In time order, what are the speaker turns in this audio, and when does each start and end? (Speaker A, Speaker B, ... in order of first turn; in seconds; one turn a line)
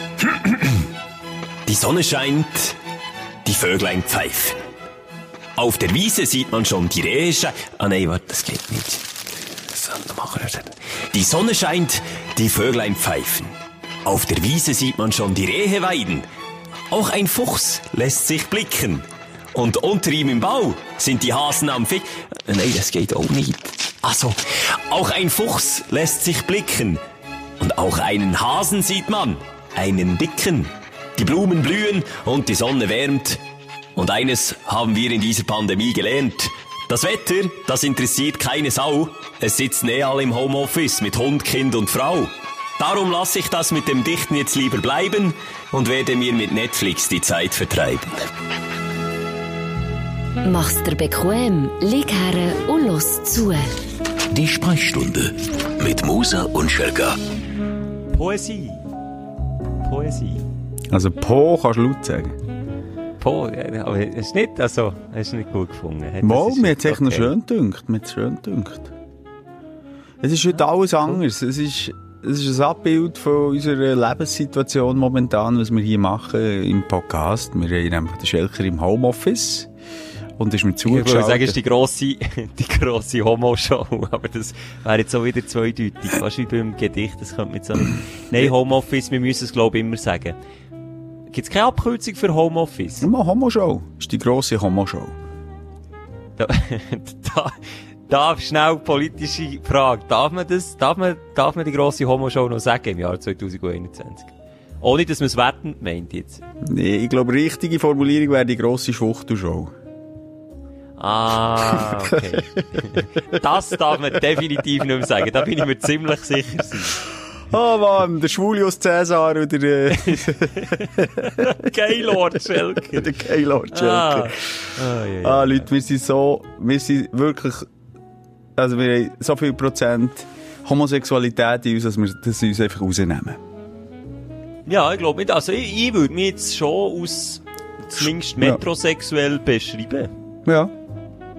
Speaker A: 0.3-0.8
Speaker A: 1.6-2.8
Speaker A: 3.4-4.6
Speaker A: 5.5-9.1
Speaker A: 9.7-16.2
Speaker A: 16.9-27.0
Speaker A: 27.6-33.4
Speaker A: 34.0-48.3
Speaker B: 50.4-53.8
Speaker C: 54.3-57.2
Speaker D: 58.1-58.8
Speaker D: 59.8-60.4
Speaker E: 60.9-62.4
Speaker D: 63.2-67.3
Speaker E: 66.2-68.9
Speaker E: 70.2-79.7
Speaker E: 80.4-81.6
Speaker D: 80.8-90.3
Speaker D: 91.3-93.1
Speaker E: 93.0-95.1
Speaker D: 96.4-97.5
Speaker D: 98.1-106.4
Speaker E: 106.7-109.7
Speaker D: 111.0-117.0
Speaker E: 111.6-113.3
Speaker E: 117.5-127.7
Speaker D: 120.0-123.1
Speaker D: 123.7-125.7
Speaker E: 128.6-133.4
Speaker D: 134.7-140.1
Speaker E: 137.9-138.6
Speaker E: 140.4-140.7